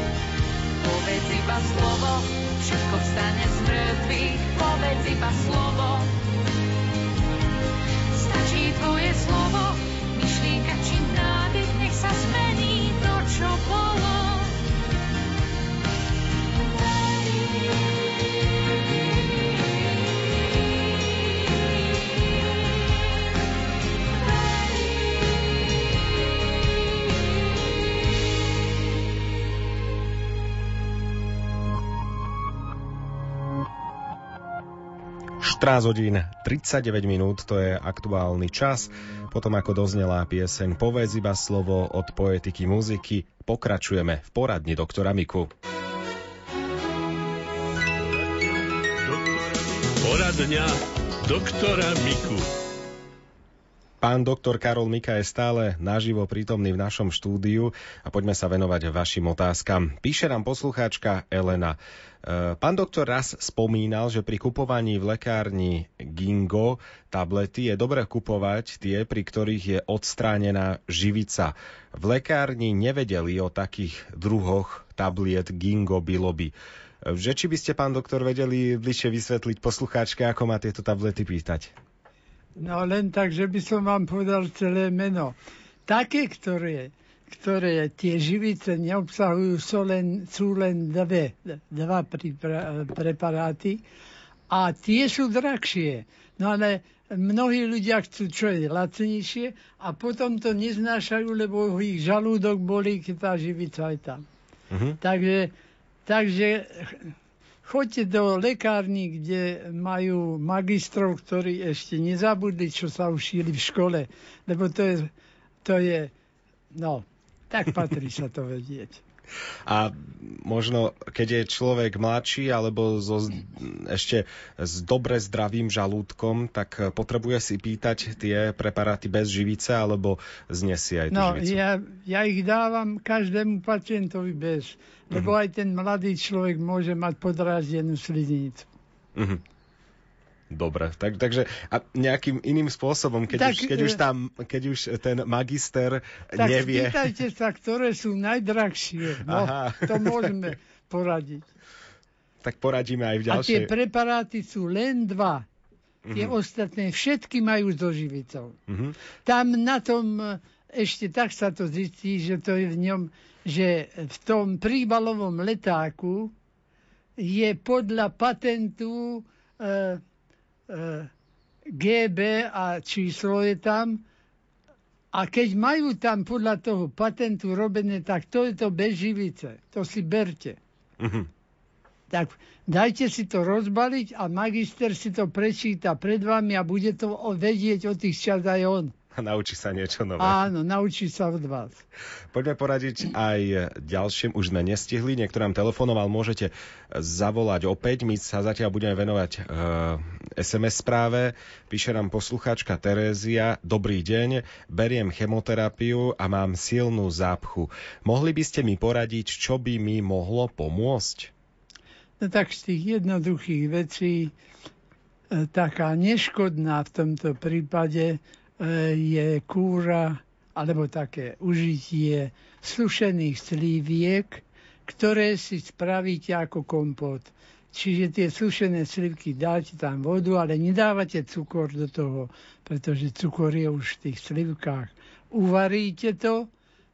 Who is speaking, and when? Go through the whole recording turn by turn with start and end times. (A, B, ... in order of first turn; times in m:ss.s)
0:00.8-0:06.1 A
0:08.1-0:14.6 A
0:35.4-0:45.5 B
0:49.0-0:52.5 C
0:54.0-1:21.7 B
1:22.6-1:25.4 D
1:25.9-1:33.8 D
1:34.5-1:44.2 D
1:44.7-1:45.0 B
1:45.0-1:45.5 D
1:46.1-1:47.1 D
1:47.6-1:55.1 D
1:55.6-1:56.1 D
1:56.7-1:59.0 D
1:59.6-2:11.6 B
2:11.1-2:18.7 D
2:19.2-2:19.4 B
2:20.5-2:27.1 B
2:23.3-2:24.0 D
2:26.4-2:31.5 D
2:29.2-2:30.3 B
2:32.4-2:33.7 B
2:33.3-2:35.4 D
2:36.1-2:36.3 B
2:36.1-2:38.6 D
2:38.7-2:39.0 B
2:39.2-2:46.3 D
2:47.2-2:50.0 D
2:50.7-2:51.1 D
2:51.7-2:54.0 D
2:55.1-3:00.6 D
3:01.0-3:01.3 B
3:02.1-3:08.9 D
3:09.1-3:10.4 B
3:10.2-3:11.8 D
3:12.3-3:31.3 B
3:32.2-3:34.3 D
3:35.3-3:56.5 D